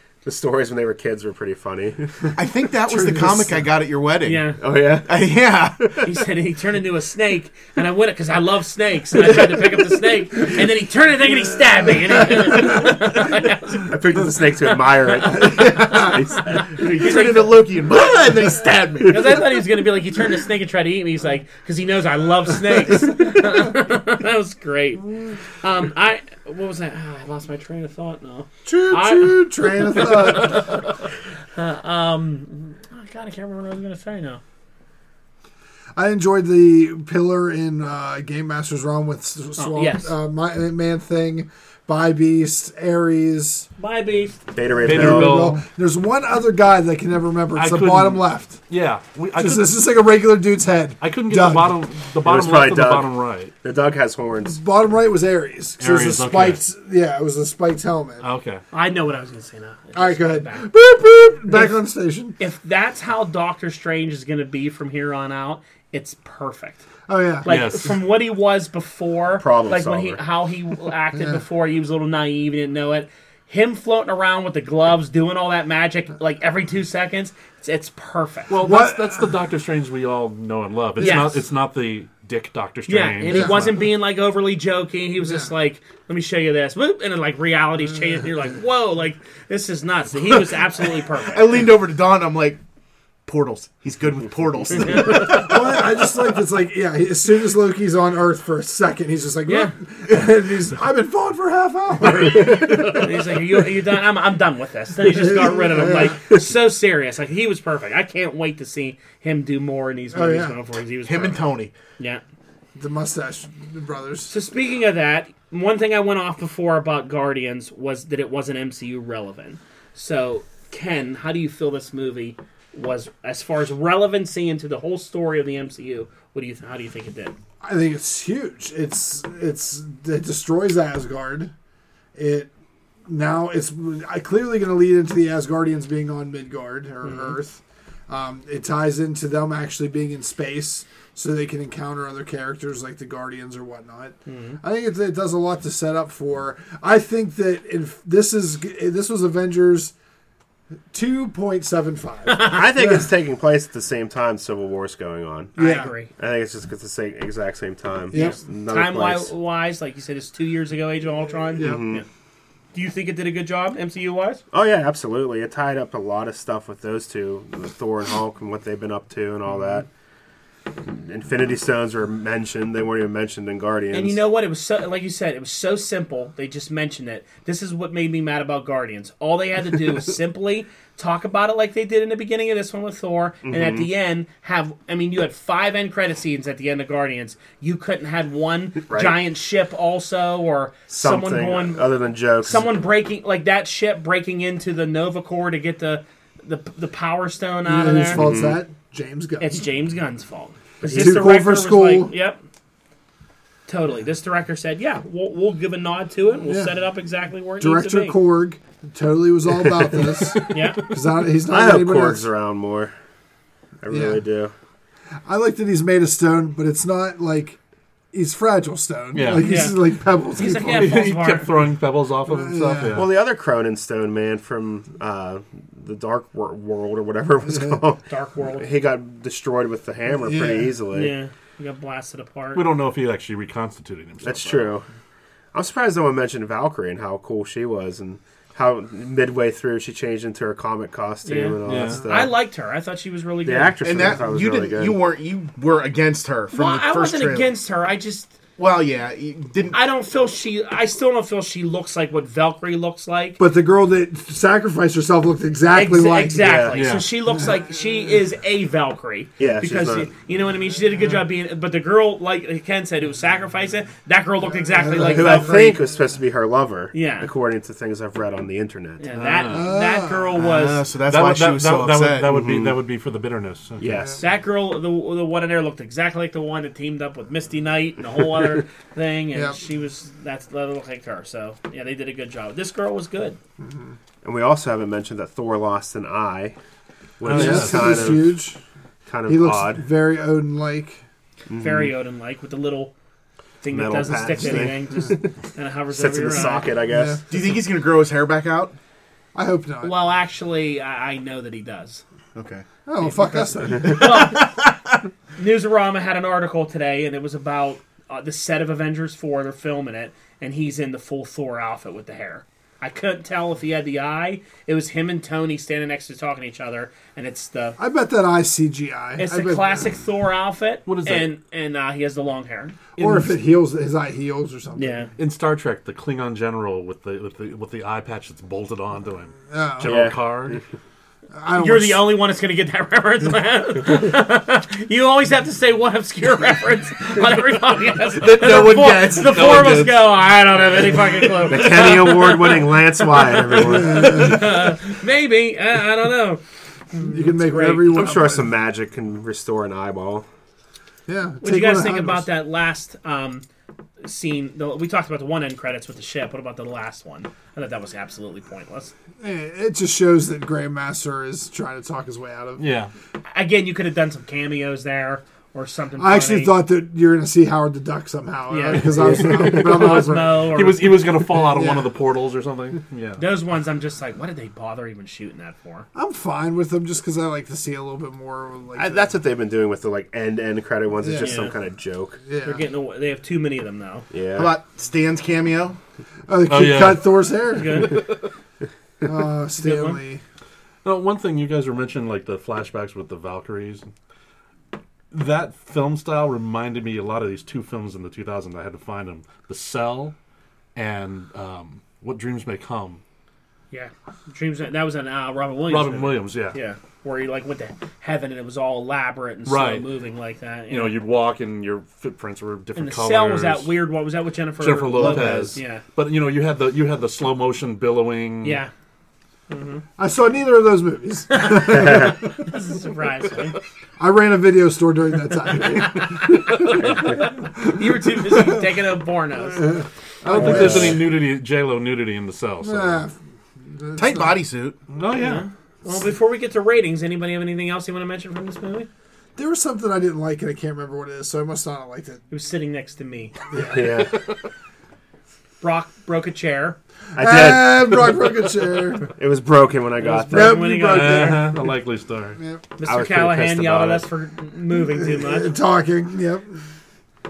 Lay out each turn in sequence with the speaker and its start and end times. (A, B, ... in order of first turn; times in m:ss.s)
0:00.2-0:02.2 A
0:02.3-0:06.1 B
0:02.9-0:03.5 C
0:04.2-0:04.6 D
0:04.6-0:05.6 A
0:06.0-0:13.9 D
0:13.9-0:16.9 A
0:15.3-0:15.9 C
0:15.4-0:19.4 B
0:16.8-0:17.6 D
0:19.0-0:30.9 D
0:28.6-0:30.8 C
0:31.6-0:34.4 D
0:35.9-0:43.7 C
0:39.6-0:40.1 D
0:43.8-0:44.4 D
0:44.5-0:45.5 A
0:44.8-0:48.6 C
0:44.8-0:45.6 E
0:47.5-0:49.8 E
0:49.4-0:51.8 C
0:51.0-0:53.5 E
0:52.2-0:54.6 A
0:54.4-0:58.3 C
0:55.8-0:56.6 E
0:58.2-0:58.6 E
0:58.7-1:00.7 D
0:59.9-1:02.4 C
1:01.5-1:01.8 D
1:02.4-1:06.8 D
1:07.1-1:07.5 C
1:07.4-1:18.5 D
1:07.4-1:08.0 E
1:09.4-1:10.2 A
1:18.5-1:23.8 E
1:18.5-1:19.3 C
1:21.0-1:21.4 D
1:21.0-1:21.3 C
1:22.9-1:31.6 D
1:23.3-1:23.8 C
1:25.2-1:25.5 C
1:31.3-1:32.6 B
1:33.2-1:35.7 B
1:34.8-1:35.4 D
1:35.0-1:43.5 C
1:39.4-1:39.7 D
1:42.9-1:51.5 D
1:45.2-1:46.1 C
1:50.1-1:50.6 C
1:51.0-1:51.7 B
1:52.8-1:54.3 C
1:54.3-2:07.3 D
2:07.6-2:11.5 C
2:12.1-2:12.5 C
2:13.0-2:29.9 C
2:17.0-2:17.4 D
2:24.3-2:24.6 D
2:30.9-2:33.1 C
2:32.2-2:32.6 D
2:32.4-2:35.6 A
2:35.6-2:36.0 C
2:35.6-2:36.1 D
2:36.1-2:39.3 A
2:38.1-2:38.4 C
2:38.1-2:42.0 D
2:41.6-2:41.9 C
2:41.6-2:42.0 A
2:42.7-2:44.4 D
2:44.5-2:49.8 A
2:50.8-2:54.2 A
2:53.9-3:18.2 D
3:03.4-3:03.9 A
3:08.9-3:09.2 A
3:10.9-3:12.8 A
3:17.6-3:19.6 C
3:18.2-3:18.6 A
3:19.4-3:22.4 D
3:20.9-3:21.2 A
3:20.9-3:22.1 C
3:23.7-3:28.2 D
3:26.4-3:26.7 C
3:27.6-3:32.3 C
3:29.6-3:30.5 A
3:30.5-3:30.9 D
3:31.4-3:32.9 A
3:33.8-3:34.5 A
3:33.9-3:34.2 C
3:35.2-3:37.6 C
3:38.1-3:41.0 C
3:39.1-3:39.8 E
3:39.4-3:39.8 D
3:40.3-3:41.5 D
3:40.7-3:43.1 E
3:42.2-3:43.1 C
3:42.9-3:48.0 A
3:47.5-3:47.8 C
3:48.1-3:48.7 D
3:48.6-3:51.1 A
3:50.2-3:50.7 C
3:50.9-3:52.6 D
3:52.5-3:54.7 E
3:54.2-3:54.9 A
3:55.5-4:02.3 A
4:01.2-4:04.1 D
4:01.6-4:02.0 E
4:03.4-4:05.0 A
4:03.8-4:07.5 B
4:06.5-4:08.3 D
4:08.6-4:09.8 B
4:09.7-4:13.4 D
4:13.4-4:16.6 C
4:15.7-4:25.8 D
4:16.4-4:17.0 A
4:16.7-4:17.0 E
4:17.3-4:17.6 C
4:19.4-4:20.1 A
4:24.7-4:25.7 C
4:25.1-4:29.1 A
4:26.9-4:27.3 D
4:29.0-4:30.8 D
4:29.1-4:29.7 E
4:29.5-4:30.4 C
4:30.4-4:32.6 B
4:31.1-4:33.9 E
4:32.3-4:32.7 A
4:33.8-4:34.2 A
4:33.8-4:34.2 C
4:34.2-4:43.4 D
4:43.6-4:43.9 C
4:44.2-4:46.6 A
4:47.2-4:48.4 A
4:47.2-4:48.1 E
4:47.3-4:48.6 C
4:49.1-4:49.8 A
4:49.2-4:51.0 C
4:51.5-4:51.9 A
4:51.6-4:52.9 D
4:53.6-4:56.7 D
4:53.7-4:55.3 A
4:55.9-4:57.2 A
4:56.9-4:57.2 C
4:57.3-4:58.7 B
4:59.3-4:59.9 C
4:59.8-5:02.0 D
5:02.3-5:02.6 B
5:02.8-5:04.3 C
5:03.0-5:04.6 D
5:05.4-5:17.8 D
5:17.8-5:19.9 C
5:19.2-5:22.8 D
5:20.8-5:21.3 E
5:23.0-5:25.1 C
5:23.0-5:23.3 E
5:24.8-5:25.1 D
5:25.2-5:30.6 E
5:29.5-5:30.0 C
5:29.8-5:30.6 A
5:31.3-5:32.2 C
5:31.5-5:42.6 D
5:38.1-5:40.0 B
5:41.5-5:44.4 A
5:43.5-5:46.4 D
5:43.6-5:44.6 C
5:46.9-5:48.1 D
5:47.0-5:48.5 C
5:47.8-5:50.3 A
5:51.1-5:52.3 C
5:51.4-5:53.4 D
5:54.0-5:58.9 D
5:59.2-6:02.6 C
6:02.6-6:02.9 E
6:03.3-6:06.6 D
6:06.0-6:10.6 C
6:08.5-6:10.9 D
6:09.9-6:13.2 E
6:11.3-6:12.0 C
6:13.2-6:15.9 D
6:15.9-6:19.1 C
6:18.8-6:22.2 A
6:21.0-6:21.5 C
6:21.2-6:21.5 D
6:22.2-6:22.6 C
6:22.4-6:24.0 D
6:24.1-6:24.5 A
6:24.3-6:25.8 B
6:26.3-6:28.1 C
6:26.5-6:28.2 E
6:27.5-6:28.1 D
6:29.0-6:30.2 C
6:29.5-6:30.0 D
6:30.8-6:33.9 E
6:35.1-6:40.1 E
6:40.7-6:43.0 E
6:43.7-6:51.0 D
6:45.7-6:46.6 E
6:49.5-6:49.8 E
6:50.7-6:53.8 E
6:52.7-6:55.8 D
6:54.6-6:58.6 E
6:55.0-6:55.5 B
6:58.4-6:58.7 D
6:59.5-6:59.8 D
7:00.0-7:02.3 C
7:01.3-7:03.6 D
7:01.6-7:02.2 A
7:04.0-7:08.7 C
7:05.8-7:09.8 D
7:09.6-7:11.1 C
7:10.2-7:13.0 E
7:12.6-7:13.1 C
7:13.7-7:14.4 C
7:14.0-7:14.8 B
7:14.9-7:15.4 E
7:15.1-7:18.9 D
7:19.4-7:22.2 C
7:22.3-7:23.3 D
7:23.5-7:23.9 C
7:23.6-7:24.2 A
7:25.6-7:26.8 D
7:27.1-7:28.3 A
7:27.2-7:29.1 C
7:29.0-7:30.7 A
7:30.0-7:31.5 D
7:30.3-7:31.6 C
7:30.8-7:32.4 E
7:32.4-7:32.6 C
7:32.8-7:35.5 D
7:32.8-7:34.0 A
7:34.8-7:36.6 C